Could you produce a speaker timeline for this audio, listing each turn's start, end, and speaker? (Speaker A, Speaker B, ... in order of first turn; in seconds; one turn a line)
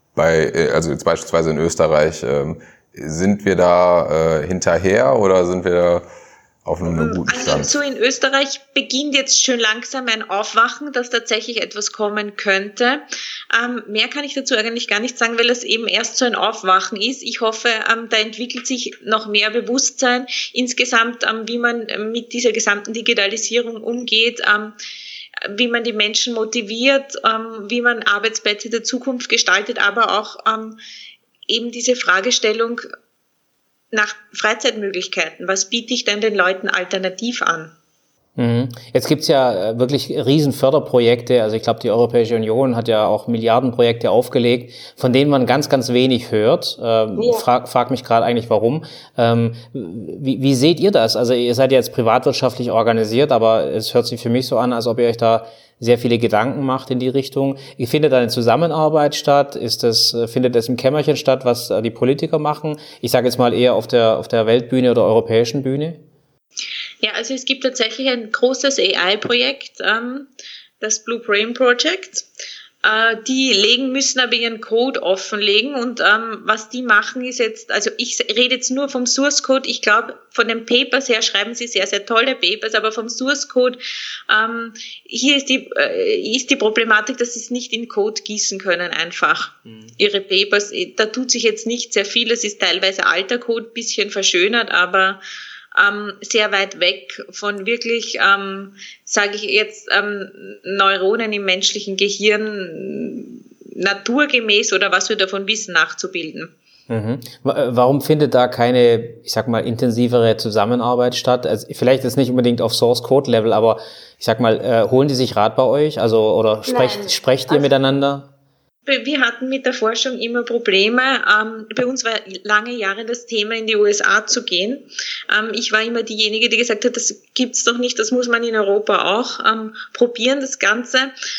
Speaker A: 0.2-6.1
Speaker A: 6.7-7.8
Speaker B: 6.9-24.8
Speaker B: 25.4-30.8
Speaker B: 31.5-32.9
Speaker B: 33.9-37.7
Speaker C: 38.4-66.0
Speaker B: 67.0-70.3
Speaker B: 70.8-72.3
Speaker B: 72.8-95.2
Speaker B: 95.7-106.5
Speaker C: 106.9-118.3
Speaker B: 118.9-131.1